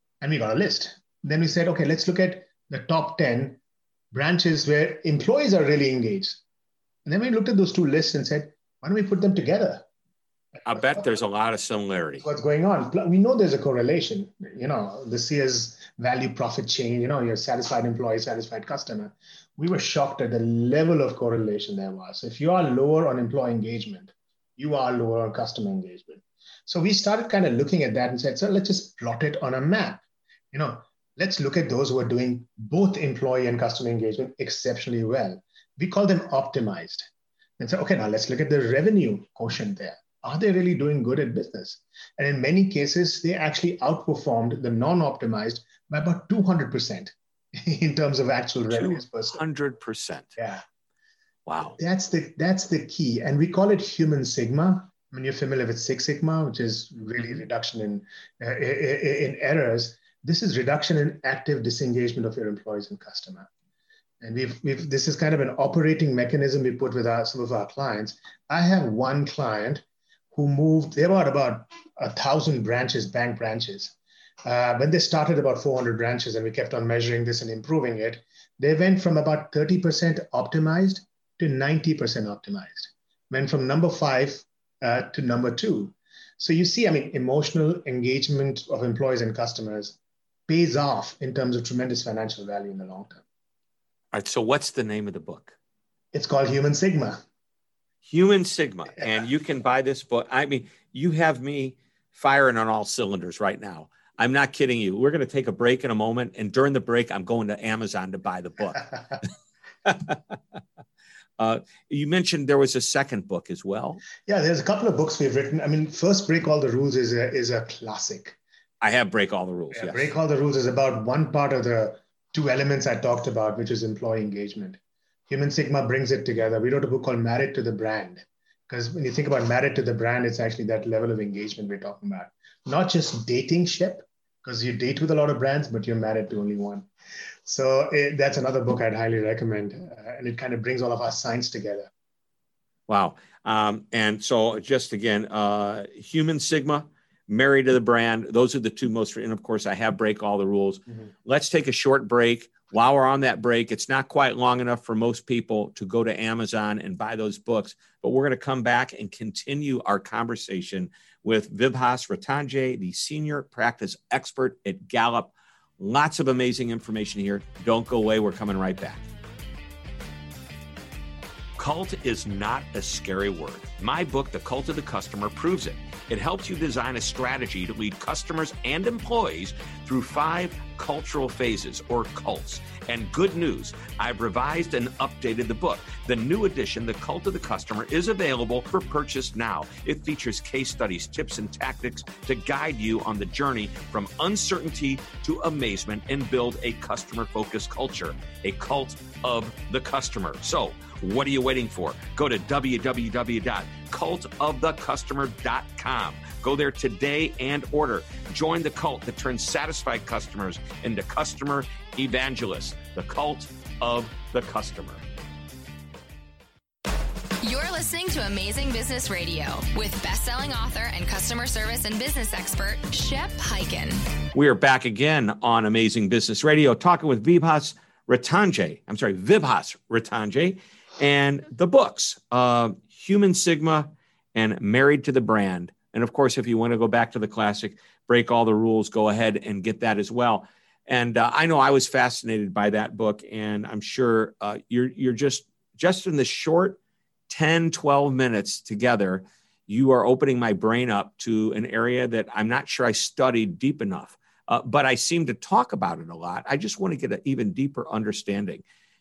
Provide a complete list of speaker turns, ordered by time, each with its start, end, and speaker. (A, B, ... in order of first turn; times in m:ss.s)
0:00.2-0:03.6 A
0:04.1-0:06.4 A
0:07.0-0:09.8 A
0:10.6-0:11.1 A
0:10.6-0:12.2 B
0:12.2-0:37.1 A
0:37.6-0:49.4 A
0:48.7-0:50.4 B
0:50.4-0:50.6 A
0:51.4-0:51.8 B
0:51.8-1:03.5 A
1:04.2-1:33.2 A
1:34.1-1:35.5 B
1:36.1-1:37.2 A
1:38.0-1:48.9 B
1:49.8-1:50.4 B
1:51.4-1:54.0 B
1:54.2-1:58.4 A
1:58.8-2:00.1 B
1:59.7-2:16.9 A
2:17.4-2:21.9 A
2:22.9-2:49.0 B
2:51.6-3:35.0 B
3:37.4-3:44.0 C
3:44.3-4:18.6 B